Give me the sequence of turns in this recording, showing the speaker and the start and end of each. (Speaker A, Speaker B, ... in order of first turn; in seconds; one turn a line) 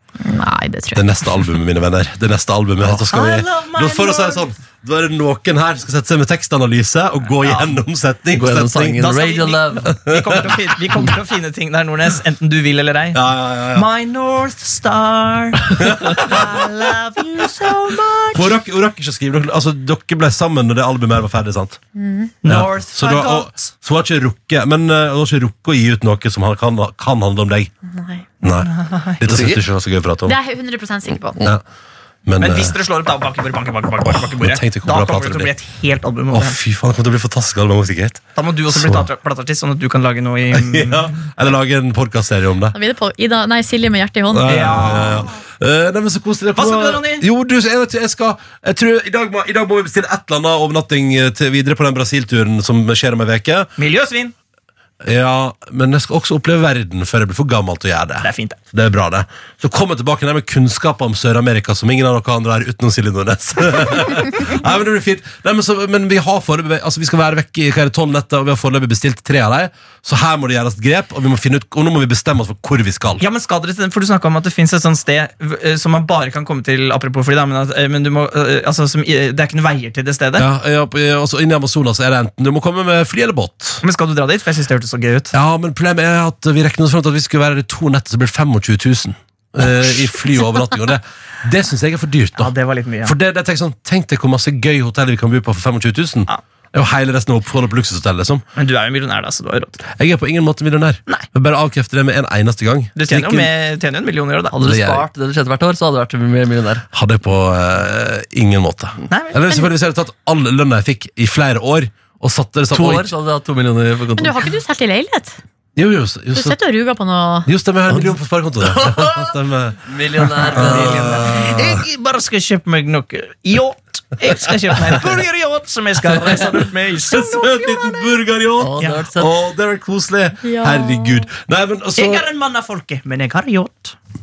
Speaker A: 0.2-1.1
Speaker B: 0.9-9.1
Speaker C: 2.9-4.5
Speaker C: 7.4-7.7
Speaker D: 8.3-9.9
Speaker C: 9.0-13.2
Speaker B: 9.9-10.6
Speaker B: 13.1-13.9
Speaker C: 13.7-18.5
Speaker B: 15.8-16.6
Speaker B: 18.3-21.8
Speaker A: 22.0-22.3
Speaker C: 22.4-23.7
Speaker B: 22.4-27.7
Speaker A: 27.9-28.2
Speaker B: 28.4-30.4
Speaker C: 28.6-29.6
Speaker A: 30.3-31.4
Speaker B: 32.3-32.8
Speaker C: 32.4-36.6
Speaker B: 34.0-35.5
Speaker B: 36.3-39.1
Speaker C: 38.4-41.2
Speaker B: 40.5-42.8
Speaker A: 42.7-45.0
Speaker B: 44.3-53.7
Speaker C: 44.5-45.3
Speaker C: 46.6-47.2
Speaker C: 53.8-54.3
Speaker B: 55.0-73.2
Speaker C: 58.2-58.6
Speaker C: 73.2-80.5
Speaker B: 80.4-83.8
Speaker C: 83.8-85.3
Speaker B: 85.3-92.5
Speaker C: 92.4-93.1
Speaker B: 93.0-98.4
Speaker C: 98.6-99.8
Speaker B: 99.9-103.5
Speaker C: 103.0-104.5
Speaker D: 104.5-106.9
Speaker B: 104.6-105.0
Speaker B: 106.9-113.1
Speaker C: 109.1-109.6
Speaker D: 112.7-114.5
Speaker A: 114.2-115.4
Speaker B: 115.8-116.6
Speaker A: 116.3-117.5
Speaker B: 117.5-119.8
Speaker D: 118.6-119.3
Speaker D: 119.9-121.5
Speaker C: 120.2-127.8
Speaker B: 120.4-121.8
Speaker B: 127.1-132.3
Speaker D: 128.6-129.3
Speaker A: 130.4-131.3
Speaker C: 132.0-133.9